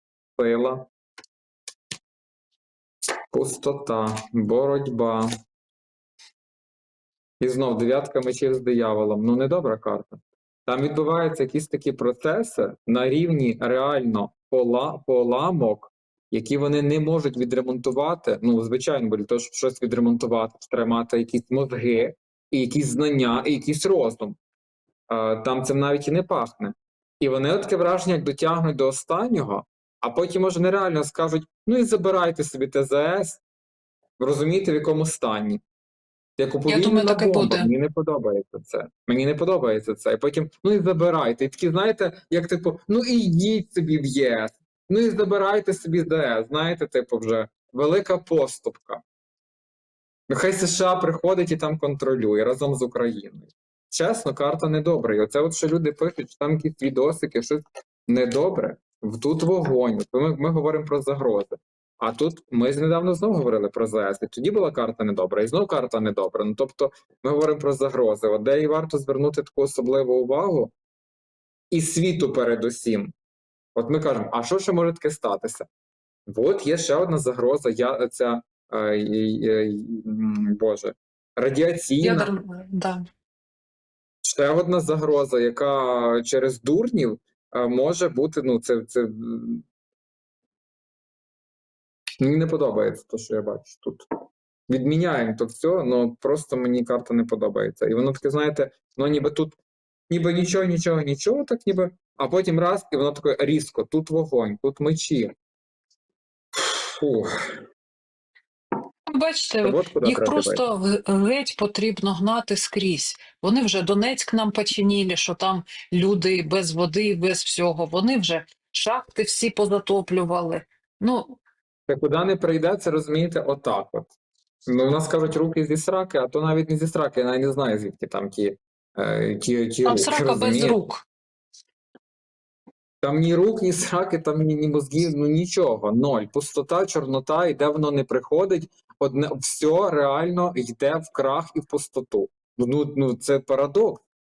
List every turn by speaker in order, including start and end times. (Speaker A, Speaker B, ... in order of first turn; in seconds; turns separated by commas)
Speaker A: 0.4-0.9, Speaker A: 3.3-5.3, Speaker A: 7.4-24.4, Speaker A: 25.1-33.4, Speaker A: 34.2-35.6, Speaker A: 36.4-49.0, Speaker B: 36.7-37.7, Speaker A: 50.3-70.7, Speaker A: 71.7-73.1, Speaker A: 73.8-75.7, Speaker A: 76.3-82.3, Speaker B: 82.0-83.0, Speaker A: 84.2-89.7, Speaker A: 92.2-94.1, Speaker A: 94.7-99.6, Speaker A: 100.1-105.3, Speaker A: 106.6-107.6, Speaker B: 109.1-121.4, Speaker A: 109.6-110.6, Speaker A: 121.9-124.1, Speaker A: 124.7-130.8, Speaker B: 129.8-131.1, Speaker A: 133.0-144.0